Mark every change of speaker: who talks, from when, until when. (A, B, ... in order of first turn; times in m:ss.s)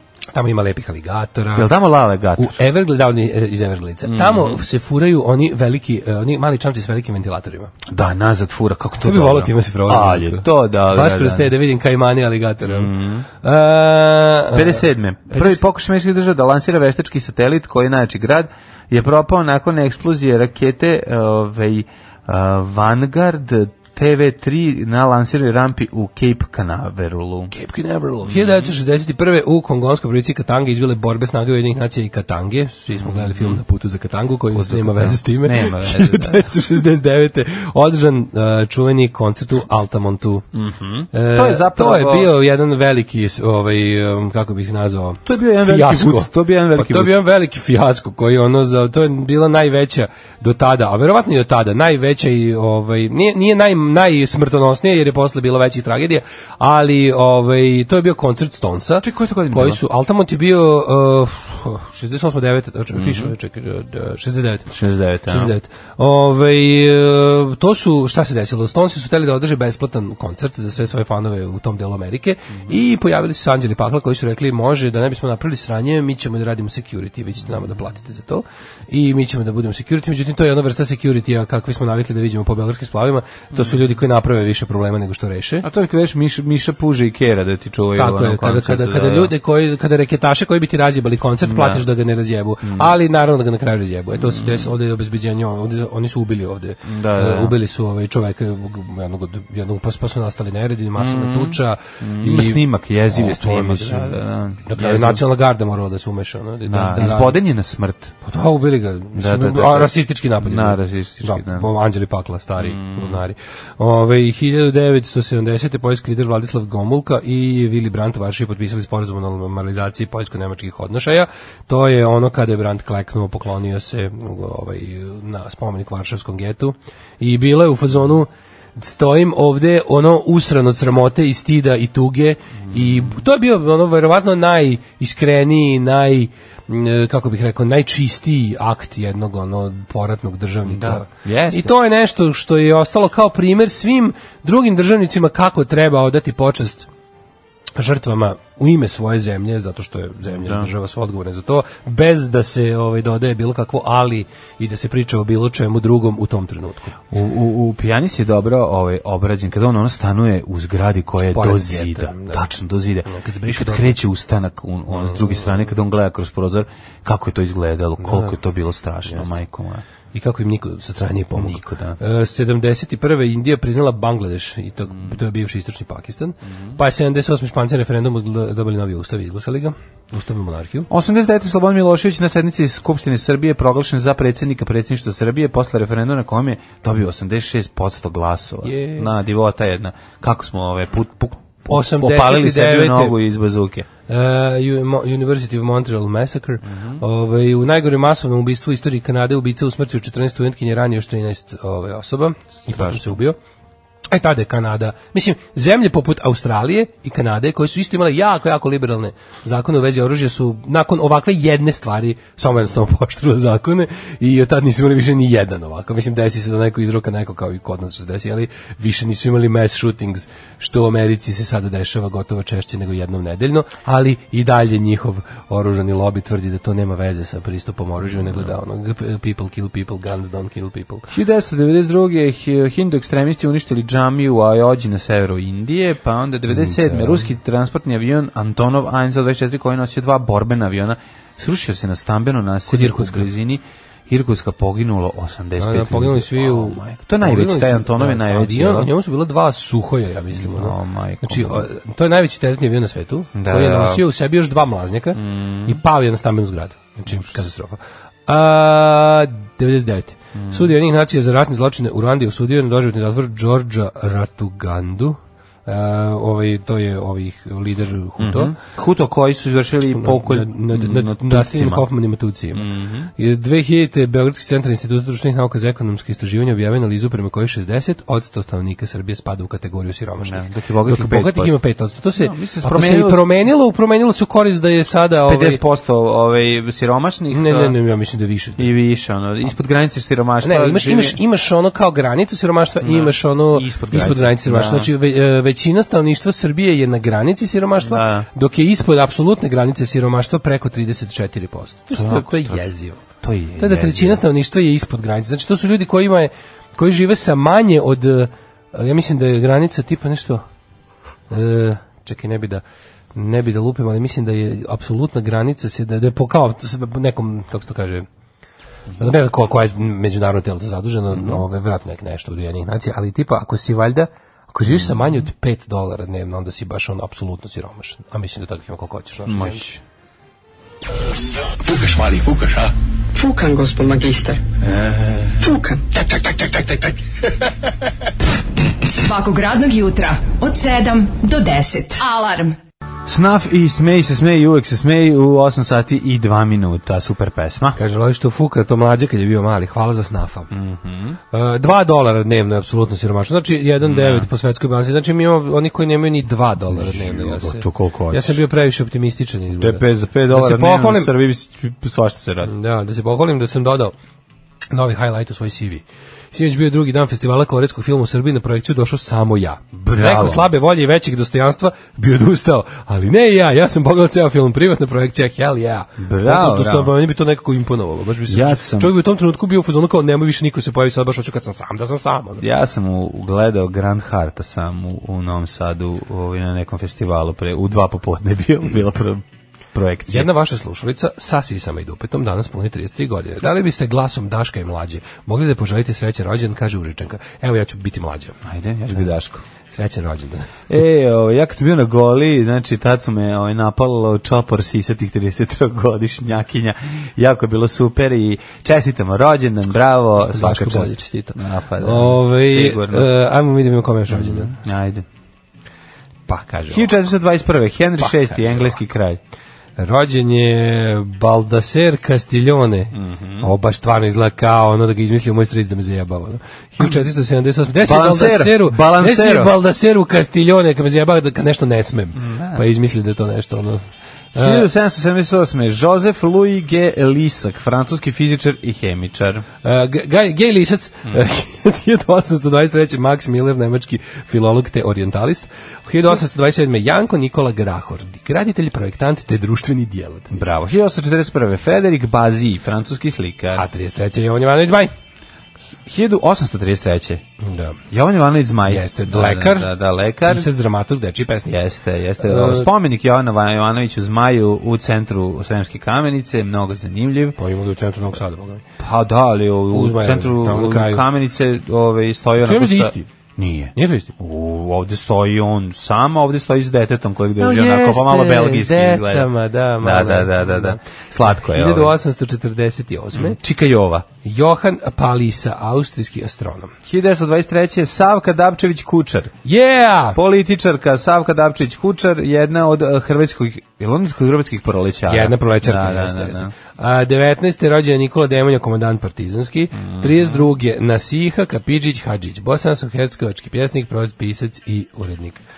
0:00.3-0:01.7 A
0:01.5-0:02.6 B
0:02.4-0:07.7 A
0:04.0-0:04.6 B
0:07.9-0:11.5 B
0:09.0-0:15.6 A
0:12.6-0:13.3 B
0:14.5-0:27.5 B
0:27.5-0:40.4 A
0:28.2-0:28.7 B
0:32.9-0:33.6 B
0:34.5-0:36.6 B
0:40.5-0:42.3 B
0:41.1-1:04.7 A
0:45.2-0:47.2 B
0:59.0-0:59.8 B
1:02.9-1:03.3 B
1:04.7-1:05.5 B
1:05.3-1:25.6 A
1:23.5-1:23.8 B
1:25.6-1:29.3 B
1:28.0-1:47.4 A
1:31.4-1:31.8 B
1:32.6-1:33.0 B
1:34.1-1:34.7 B
1:36.8-1:37.5 B
1:41.0-1:45.2 B
1:46.6-1:48.2 B
1:48.2-2:26.9 A
1:49.2-1:51.7 B
1:52.6-1:53.2 B
2:12.7-2:13.2 B
2:20.6-2:21.7 B
2:27.8-2:37.0 A
2:30.3-2:30.7 B
2:37.1-2:49.8 B
2:41.3-2:42.4 A
2:43.0-2:44.0 A
2:44.9-2:45.5 A
2:48.0-2:48.4 A
2:50.1-3:00.9 A
2:51.4-2:52.0 B
2:56.5-2:56.8 B
3:00.9-3:13.9 B
3:08.6-3:09.1 A
3:11.7-3:13.2 A
3:14.1-3:23.4 A
3:16.6-3:17.0 B
3:22.6-3:23.2 B
3:24.1-3:51.1 A
3:48.0-3:48.5 B
3:51.1-4:08.9 B
3:56.5-3:57.3 A
4:02.7-4:03.3 A
4:05.6-4:28.5 A
4:10.3-4:11.7 B
4:13.4-4:14.0 B
4:15.1-4:15.8 B
4:17.1-4:17.4 B
4:20.3-4:20.7 B
4:28.2-4:31.9 B
4:29.9-4:45.6 A
4:32.5-4:33.1 B
4:40.2-4:41.6 B
4:42.1-4:43.2 B
4:45.2-4:47.8 B
4:47.3-4:48.7 A
4:48.6-4:51.2 B
4:50.4-5:03.0 A
4:52.8-4:54.9 B
4:57.8-4:58.3 B
5:01.9-5:02.7 B
5:03.2-5:04.2 B
5:03.6-5:10.4 A
5:11.3-5:12.6 A
5:13.1-5:18.0 A
5:19.0-5:29.6 A
5:21.1-5:21.4 B
5:24.6-5:25.1 B
5:29.2-5:29.8 B
5:31.6-5:32.7 C
5:35.9-5:36.9 C
5:38.9-5:42.6 D
5:43.1-5:47.8 B
5:47.8-5:50.5 A
5:50.5-5:51.2 B
5:51.3-6:01.1 A
5:53.8-5:54.3 B
5:56.7-5:58.4 B
5:59.6-6:02.5 B
6:02.4-6:03.9 A
6:04.7-6:22.4 A
6:09.7-6:10.5 B
6:16.0-6:16.9 B
6:18.3-6:18.9 B
6:22.4-6:30.3 B
6:30.1-6:38.4 A
6:38.4-6:39.4 B
6:39.7-6:40.5 A
6:40.7-6:53.1 B
6:50.2-6:54.5 A
6:54.1-6:55.0 B
6:56.3-6:56.9 A
6:56.7-6:59.2 B
6:58.0-6:58.5 A
6:59.8-7:13.8 A
7:02.9-7:03.5 B
7:07.8-7:09.5 B
7:12.1-7:12.6 B
7:14.3-7:19.4 B
7:14.4-7:14.6 A
7:19.6-7:30.4 A
7:30.3-7:33.6 B
7:33.5-7:34.9 A
7:35.8-7:37.2 B
7:37.4-7:37.8 A
7:37.9-7:40.5 B
7:38.7-7:39.7 A
7:40.2-7:41.5 A
7:41.4-7:47.4 B
7:42.2-7:42.7 A
7:47.4-7:48.6 A
7:48.8-7:59.3 B
7:49.7-7:51.0 A
7:52.4-7:53.1 A
7:53.8-7:54.1 A
7:57.4-8:03.4 A
7:59.8-8:01.9 B
8:03.1-8:04.0 B
8:04.2-8:06.7 A
8:06.9-8:09.3 B
8:09.4-8:10.2 A
8:10.1-8:16.5 B
8:15.1-8:25.4 A
8:19.7-8:20.5 B